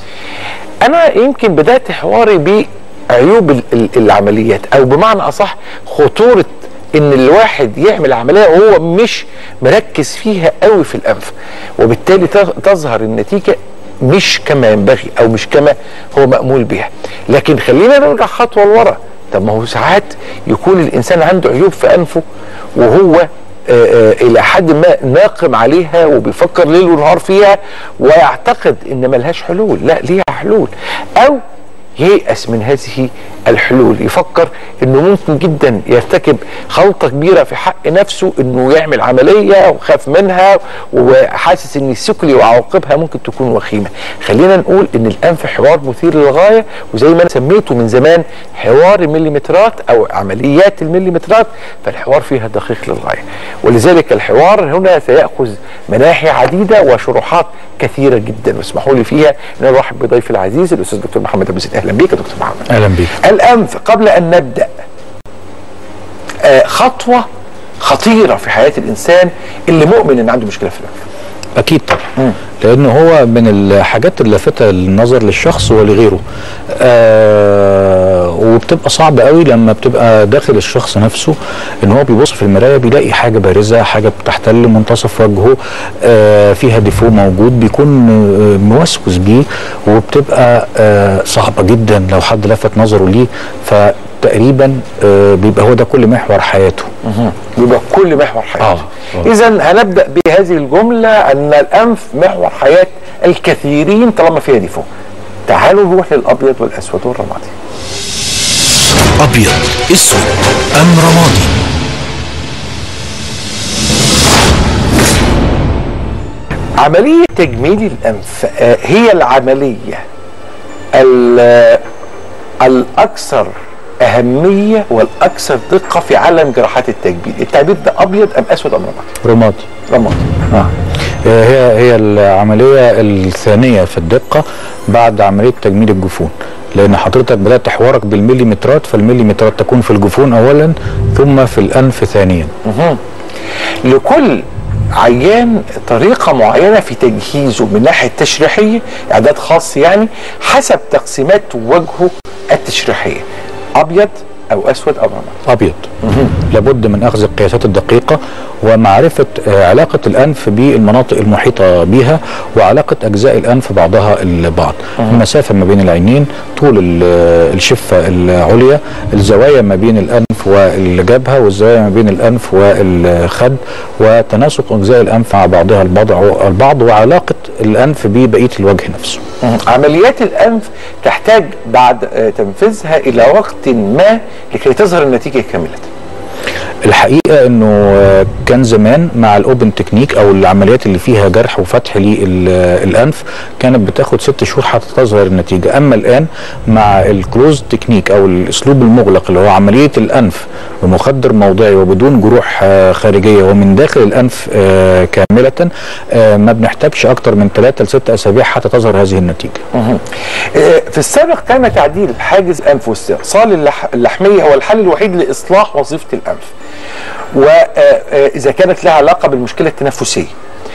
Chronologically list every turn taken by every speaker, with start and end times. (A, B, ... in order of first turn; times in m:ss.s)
0:00.8-0:22.2 A
0:22.8-0:31.4 A
0:32.0-1:02.6 A
1:02.7-1:03.1 B
1:03.2-1:04.7 A
1:06.4-1:07.2 A
1:07.8-1:11.0 A
1:11.6-1:12.0 B
1:12.6-1:36.9 B
1:37.0-1:44.9 A
1:38.6-1:39.3 B
1:45.5-1:47.5 A
1:49.2-1:51.6 C
1:56.8-2:00.0 A
2:00.9-2:01.8 A
2:02.6-2:03.5 A
2:04.0-2:09.1 A
2:09.2-2:09.6 B
2:09.9-2:10.3 A
2:11.2-2:22.5 B
2:22.6-2:23.0 A
2:23.8-2:24.4 A
2:25.0-2:33.2 A
2:33.7-2:35.4 A
2:35.5-2:35.9 B
2:36.0-2:36.3 A
2:36.5-2:59.2 B
2:59.4-3:05.9 A
3:06.8-3:29.6 B
3:29.7-3:36.5 A
3:37.3-3:40.3 A